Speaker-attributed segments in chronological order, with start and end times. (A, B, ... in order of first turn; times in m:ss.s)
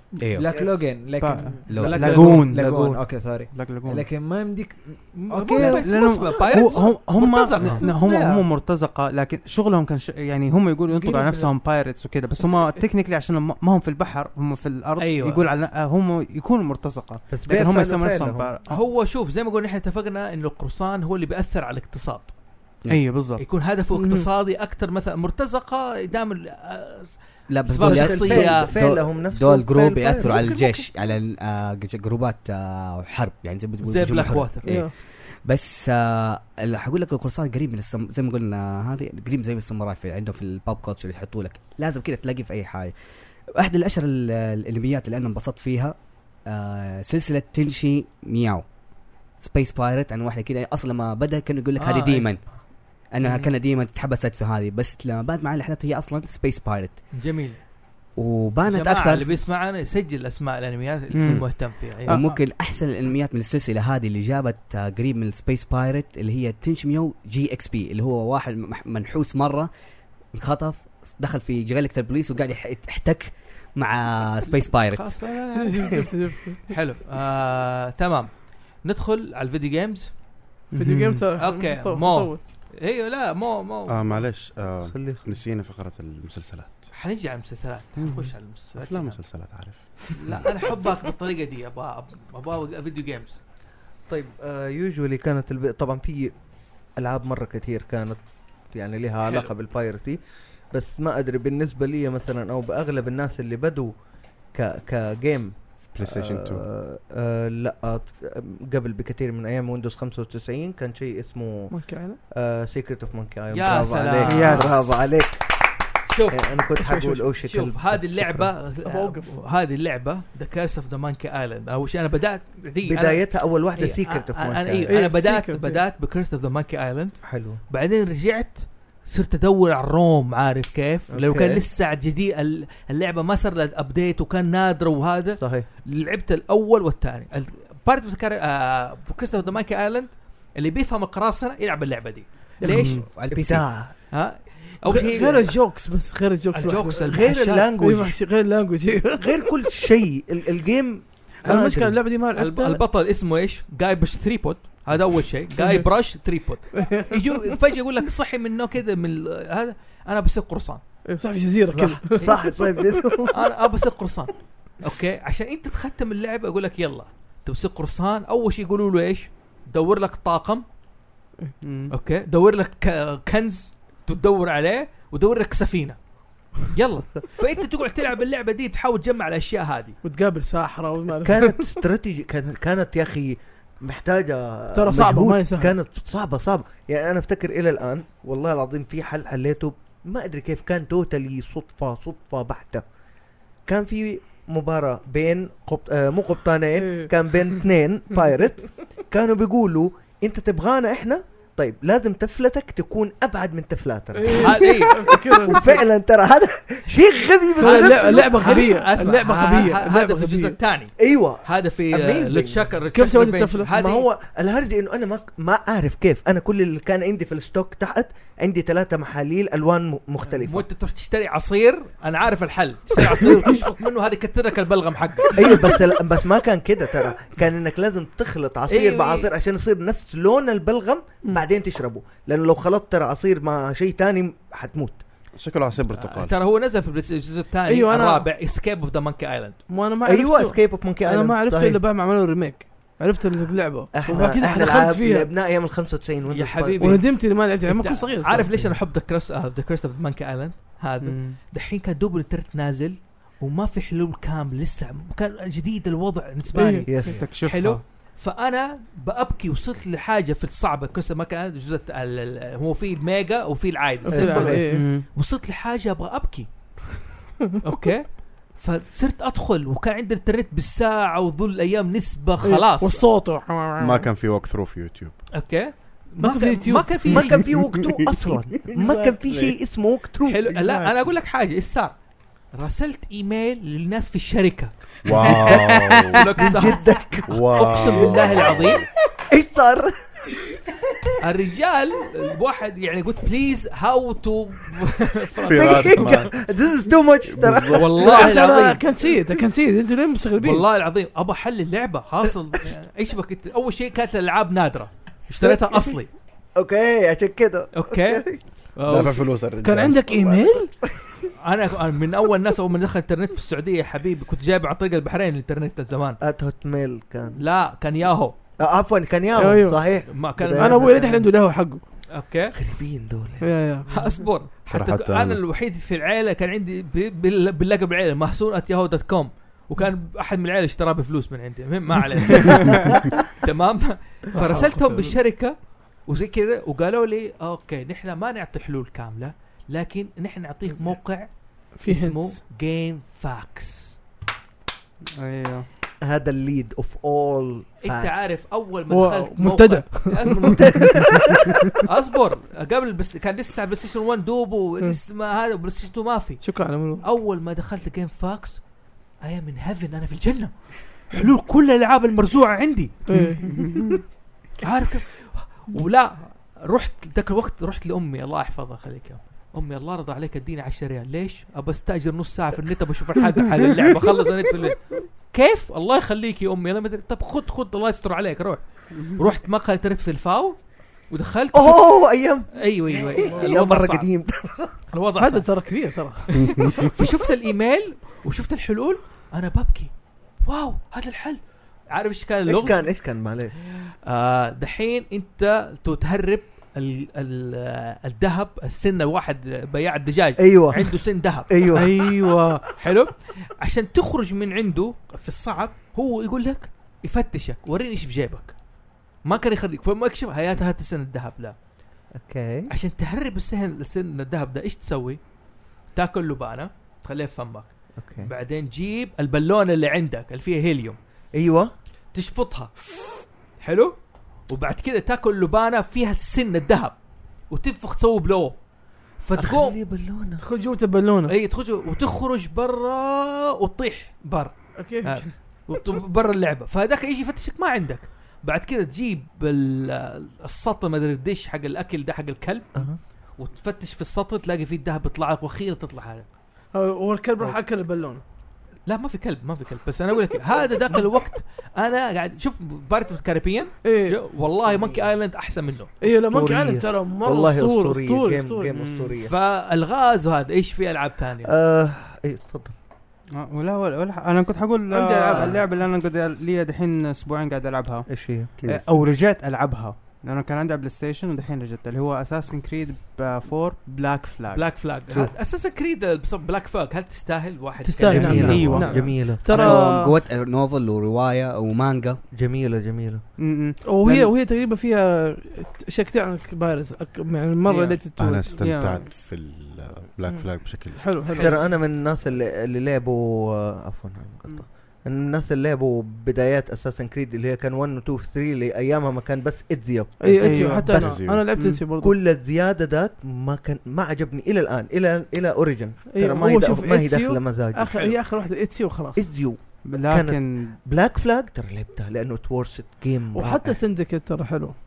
0:00.2-0:00.5 A
0:00.3-0:06.7 B
0:00.5-0:00.8 C
0:01.2-0:04.0 D
0:01.7-0:03.0 A
0:05.1-0:07.8 E
0:05.6-0:18.8 D
0:07.6-0:08.4 B
0:10.9-0:11.5 B
0:15.0-0:15.4 E
0:17.3-0:18.5 C
0:18.7-0:22.3 E
0:22.9-0:23.4 D
0:23.4-0:28.7 E
0:23.9-0:24.3 F
0:27.5-0:42.9 A
0:27.8-0:30.4 C
0:30.2-0:31.1 E
0:33.8-0:34.7 E
0:34.6-0:34.9 F
0:43.5-0:46.0 A
0:46.4-0:48.6 A
0:49.4-0:52.4 A
0:51.8-0:52.3 E
0:53.1-0:57.0 A
0:53.2-0:53.5 E
0:57.1-0:57.6 E
0:58.2-0:59.4 A
0:58.7-1:02.2 E
1:01.1-1:02.4 D
1:01.2-1:09.7 A
1:10.3-1:15.2 A
1:14.9-1:16.0 E
1:15.5-1:16.8 F
1:16.7-1:18.3 E
1:18.8-1:20.1 E
1:20.7-1:21.3 D
1:20.8-1:22.4 F
1:21.4-1:24.2 E
1:23.9-1:26.9 G
1:24.8-1:25.3 C
1:26.9-1:29.2 E
1:28.0-1:28.3 D
1:28.8-1:29.8 G
1:30.2-1:33.4 E
1:34.1-1:36.3 C
1:37.0-1:38.2 C
1:38.7-1:40.2 C
1:39.2-1:39.5 E
1:40.7-1:43.9 C
1:44.5-1:51.8 C
1:45.9-1:46.6 G
1:51.7-1:52.2 F
1:52.3-1:55.6 C
1:53.5-1:54.9 E
1:54.2-1:54.9 D
1:56.1-2:23.0 E
1:56.3-1:58.6 C
1:56.8-1:57.2 F
1:58.8-1:59.4 F
2:02.8-2:04.9 C
2:04.9-2:05.8 F
2:07.3-2:07.6 C
2:11.1-2:11.6 C
2:15.4-2:15.7 C
2:22.6-2:23.0 F
2:22.8-2:23.0 D
2:23.1-2:23.7 A
2:23.3-2:24.0 C
2:24.1-2:25.5 E
2:24.9-2:29.7 F
2:26.5-2:27.7 E
2:26.9-2:28.2 C
2:29.2-2:32.0 C
2:31.4-2:32.8 F
2:32.4-2:40.8 E
2:35.5-2:35.9 F
2:36.7-2:37.5 F
2:41.1-2:43.2 F
2:41.7-2:43.3 C
2:42.2-2:42.4 E
2:43.3-2:50.6 E
2:51.6-2:51.9 D
2:51.9-2:56.0 E
2:56.7-3:00.0 E
3:00.0-3:01.7 F
3:01.2-3:12.8 C
3:04.8-3:05.8 F
3:13.7-3:28.6 C
3:16.8-3:17.1 F
3:24.2-3:25.8 F
3:24.4-3:25.1 E
3:27.6-3:30.6 F
3:27.6-3:34.1 E
3:31.0-3:32.7 C
3:32.9-3:33.7 F
3:33.7-3:40.6 C
3:40.2-3:45.6 E
3:45.4-3:55.0 C
3:48.7-3:49.3 E
3:55.4-3:56.4 G
3:55.9-3:59.6 E
3:57.7-3:58.3 F
3:59.7-4:05.3 F
4:00.1-4:01.8 C
4:03.9-4:07.0 C
4:06.3-4:26.5 E
4:06.8-4:08.5 F
4:11.0-4:11.4 D
4:16.5-4:17.0 F
4:16.9-4:17.2 C
4:17.0-4:17.8 D
4:24.1-4:24.9 F
4:24.1-4:24.6 C
4:24.7-4:25.1 D
4:27.6-4:33.0 E
4:32.4-4:34.1 F
4:33.8-4:35.2 G
4:35.3-4:37.4 E
4:36.2-4:37.2 F
4:37.1-4:40.5 C
4:38.7-4:39.2 F
4:40.2-4:41.9 E
4:42.5-4:48.8 E
4:45.0-4:46.5 G
4:45.2-4:45.7 C
4:46.4-4:48.1 C
4:47.3-4:48.8 G
4:49.2-4:50.0 C
4:51.2-4:56.3 E
4:55.4-4:56.4 G
4:55.5-4:58.2 C
4:57.3-4:58.0 G
4:57.7-4:58.8 E
4:58.0-5:00.7 F
5:00.4-5:06.1 E
5:05.4-5:06.0 C
5:06.6-5:08.4 C
5:07.7-5:08.2 E
5:08.8-5:09.3 E
5:08.8-5:10.4 G
5:09.6-5:10.7 F
5:11.4-5:16.2 E
5:16.2-5:17.4 C
5:17.4-5:18.4 E
5:18.6-5:21.3 C
5:19.4-5:19.8 F
5:20.1-5:21.0 E
5:20.6-5:21.8 F
5:22.1-5:22.6 E
5:22.5-5:23.5 C
5:23.4-5:23.9 F
5:23.9-5:44.0 E
5:24.7-5:25.4 G
5:41.8-5:42.4 F
5:45.2-5:45.7 D
5:46.0-5:48.1 C
5:47.8-5:51.0 E
5:48.9-5:50.5 F
5:50.3-5:51.6 C
5:51.7-5:58.6 E
5:56.4-5:57.0 F
5:59.2-6:03.0 E
6:03.1-6:03.7 F
6:03.2-6:03.8 D
6:04.6-6:20.6 E
6:21.1-6:24.1 E
6:21.5-6:24.8 C
6:24.9-6:25.6 E
6:25.2-6:26.4 F
6:26.3-6:29.9 E
6:30.4-6:31.4 E
6:31.9-6:33.0 E
6:32.4-6:33.5 C
6:33.7-6:42.1 E
6:40.4-6:42.6 C
6:41.8-6:42.7 D
6:42.8-6:48.6 E
6:49.2-6:51.6 E
6:52.2-6:52.7 C
6:52.7-6:55.2 E
6:55.9-7:01.0 E
6:58.0-6:58.3 C
7:01.4-7:01.7 C
7:02.1-7:02.7 E
7:03.6-7:04.0 E
7:04.5-7:07.0 E
7:07.5-7:08.6 E
7:09.2-7:09.8 E
7:09.4-7:10.4 C
7:10.4-7:11.3 F
7:11.3-7:22.8 E
7:14.8-7:15.3 F
7:23.4-7:26.3 E
7:26.7-7:28.2 F
7:28.9-7:35.9 E
7:33.8-7:34.2 F
7:34.7-7:35.1 C
7:36.0-7:38.7 F
7:36.3-7:39.3 C
7:38.7-7:39.1 D
7:39.2-7:41.5 E
7:41.4-7:42.7 C
7:43.4-7:48.1 D
7:44.9-7:45.6 F
7:48.1-7:48.5 C
7:48.6-7:48.9 G
7:48.6-7:54.7 D
7:54.5-7:58.3 E
7:57.8-8:00.1 F
7:58.2-7:58.9 G
7:58.2-7:59.8 C
7:58.2-7:59.2 D
7:59.3-8:02.2 A
8:02.3-8:03.2 C
8:03.4-8:04.3 D
8:03.8-8:08.6 F
8:07.7-8:08.0 E
8:08.2-8:11.2 G
8:08.5-8:09.1 D
8:10.3-8:11.6 F
8:11.3-8:11.6 E
8:11.4-8:21.2 C
8:20.2-8:22.1 F
8:20.4-8:21.8 D
8:20.9-8:21.5 G
8:22.0-8:27.9 C
8:26.1-8:29.3 F
8:27.9-8:28.2 E
8:29.2-8:33.8 C
8:29.9-8:30.8 D
8:33.3-8:34.8 F